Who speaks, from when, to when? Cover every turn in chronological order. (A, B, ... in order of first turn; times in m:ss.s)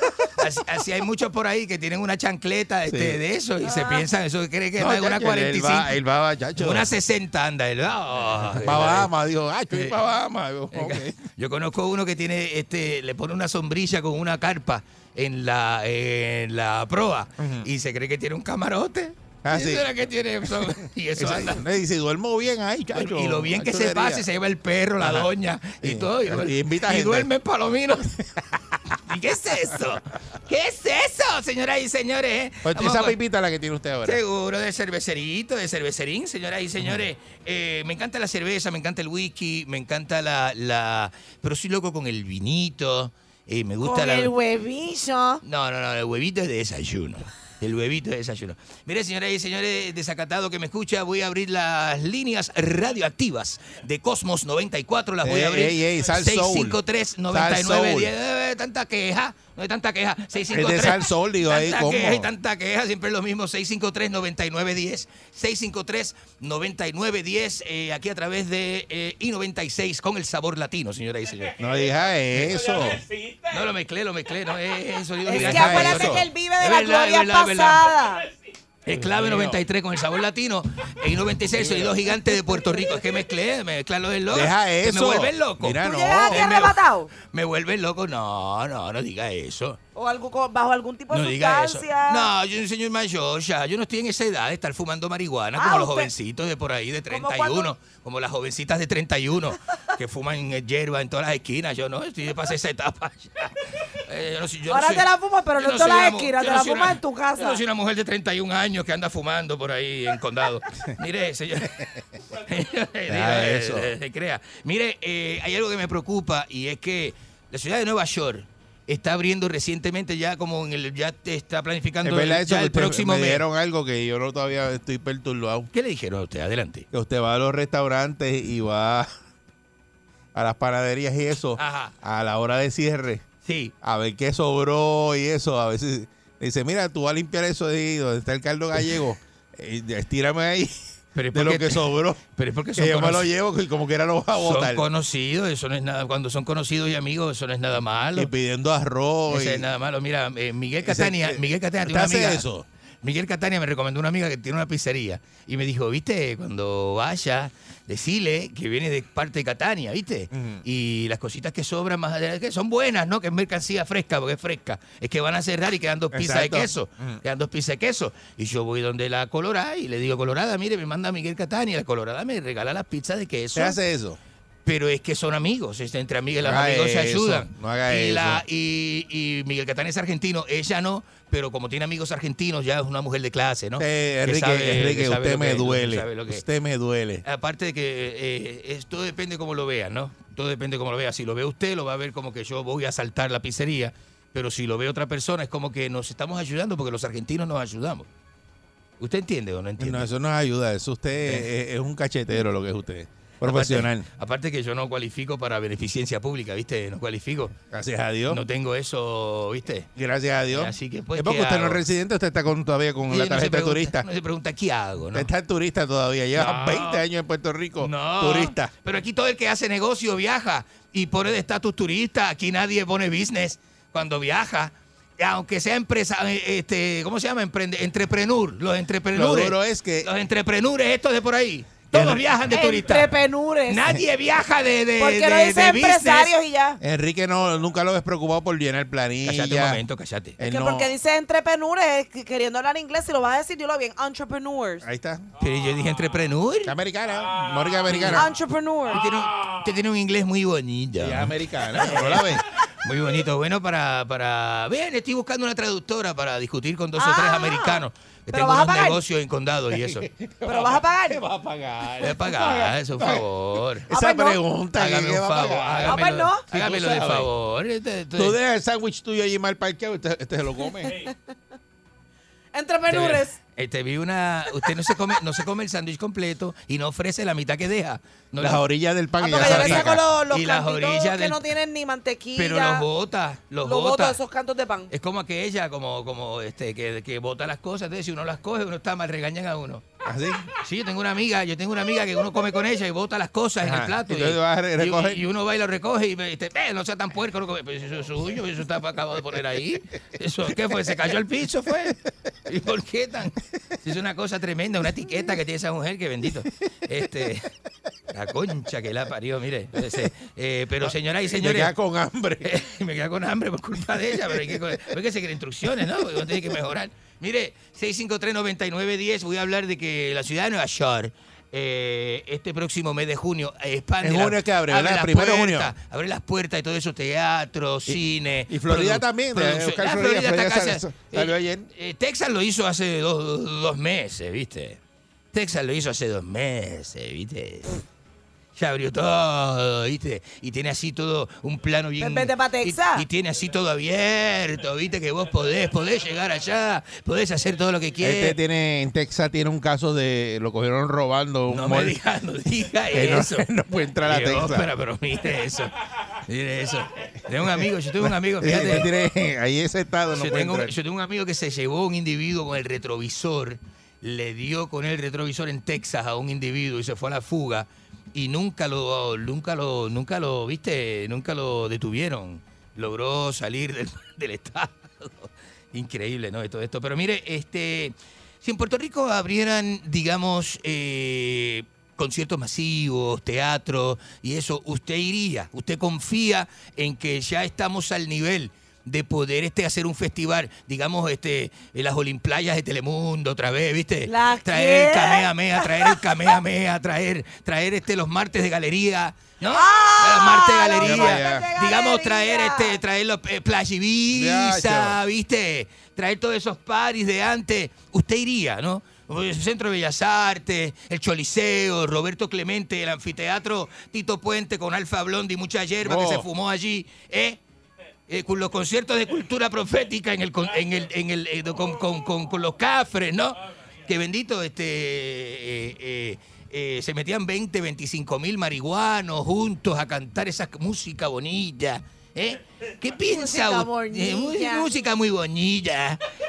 0:00.4-0:06.0 A
0:02.9-0:03.2 B
0:03.6-0:04.0 C
0:04.8-0:06.9 B
0:06.6-0:09.1 A
0:08.6-0:11.2 B
0:10.7-0:21.6 A
0:17.4-0:17.7 B
0:19.4-0:19.9 B
0:20.5-0:24.2 B
0:22.9-0:28.0 A
0:25.0-0:27.3 B
0:28.2-0:28.8 B
0:29.1-0:33.2 A
0:32.6-0:34.2 B
0:34.0-0:44.3 A
0:43.8-0:45.4 C
0:45.4-1:11.6 A
0:55.2-0:58.1 B
1:00.5-1:02.3 B
1:11.6-1:13.0 B
1:12.3-1:12.6 A
1:13.5-1:17.9 A
1:15.2-1:18.2 C
1:15.3-1:16.2 B
1:18.8-1:29.8 A
1:18.9-1:19.6 B
1:21.5-1:22.1 B
1:24.3-1:26.6 B
1:25.8-1:27.1 C
1:29.9-1:32.3 C
1:31.1-1:51.8 A
1:35.5-1:36.1 C
1:37.1-1:37.7 C
1:44.7-1:47.6 C
1:52.4-2:03.4 A
1:53.1-1:53.9 B
2:02.0-2:05.7 B
2:05.7-2:06.8 A
2:06.9-2:09.1 B
2:10.3-2:13.2 B
2:11.6-2:11.9 A
2:13.4-2:13.7 A
2:13.8-2:20.8 B
2:21.1-2:23.3 A
2:21.3-2:22.2 B
2:22.7-2:24.8 B
2:24.4-2:28.3 A
2:28.1-2:29.6 B
2:29.3-2:32.4 A
2:30.8-2:32.6 B
2:33.0-2:53.8 A
2:40.3-2:40.6 B
2:46.1-2:47.2 B
2:53.5-2:54.2 B
2:54.6-3:06.4 A
2:56.4-2:58.4 B
3:03.8-3:07.2 B
3:07.2-3:18.1 A
3:19.0-3:20.1 A
3:19.8-3:24.0 B
3:23.4-3:27.5 A
3:27.7-3:28.4 B
3:28.3-3:29.9 A
3:30.0-3:34.0 B
3:30.5-3:31.8 A
3:33.1-3:35.3 A
3:35.1-3:38.7 B
3:36.4-3:37.0 A
3:37.8-3:53.1 A
3:49.1-3:50.1 B
3:51.9-3:52.3 B
3:52.5-3:53.8 C
3:53.7-3:56.3 A
3:55.0-3:56.8 C
3:56.8-3:59.8 B
3:59.2-4:00.4 A
4:00.4-4:00.9 B
4:00.4-4:04.8 C
4:04.8-4:05.3 B
4:05.4-4:06.7 A
4:06.6-4:08.3 B
4:07.9-4:08.2 A
4:08.0-4:09.0 C
4:08.9-4:20.0 A
4:11.0-4:12.4 B
4:17.0-4:19.0 C
4:19.8-4:23.3 B
4:20.4-4:21.2 C
4:22.0-4:23.8 A
4:22.4-4:22.7 C
4:23.8-4:27.3 B
4:23.9-4:24.4 C
4:24.8-4:28.4 A
4:25.8-4:26.4 C
4:28.1-4:31.1 B
4:32.5-4:33.4 C
4:32.9-4:38.6 A
4:38.4-4:40.0 B
4:39.2-4:42.8 C
4:39.4-4:41.5 A
4:42.4-4:44.2 A
4:43.6-4:44.9 C
4:44.9-4:49.8 A
4:50.0-4:50.5 B
4:50.6-5:02.0 A
4:53.6-4:55.2 B
5:02.5-5:07.4 A
5:08.1-5:11.7 A
5:10.8-5:12.5 B
5:12.4-5:34.8 A
5:14.3-5:14.6 B
5:24.0-5:25.7 B
5:27.9-5:31.7 B
5:35.3-5:37.7 A
5:38.6-5:48.4 A
5:42.0-5:43.0 C
5:48.0-5:52.0 B
5:51.5-5:53.4 A
5:52.9-5:54.7 B
5:54.0-5:55.7 A
5:56.3-5:58.9 A
5:58.0-6:00.7 B
6:00.1-6:57.4 A
6:34.0-6:36.0 C
6:39.5-6:42.8 C
6:40.8-6:41.5 B
6:44.1-6:45.0 B
6:55.8-6:56.2 B
6:58.1-7:16.0 A
7:13.0-7:14.9 C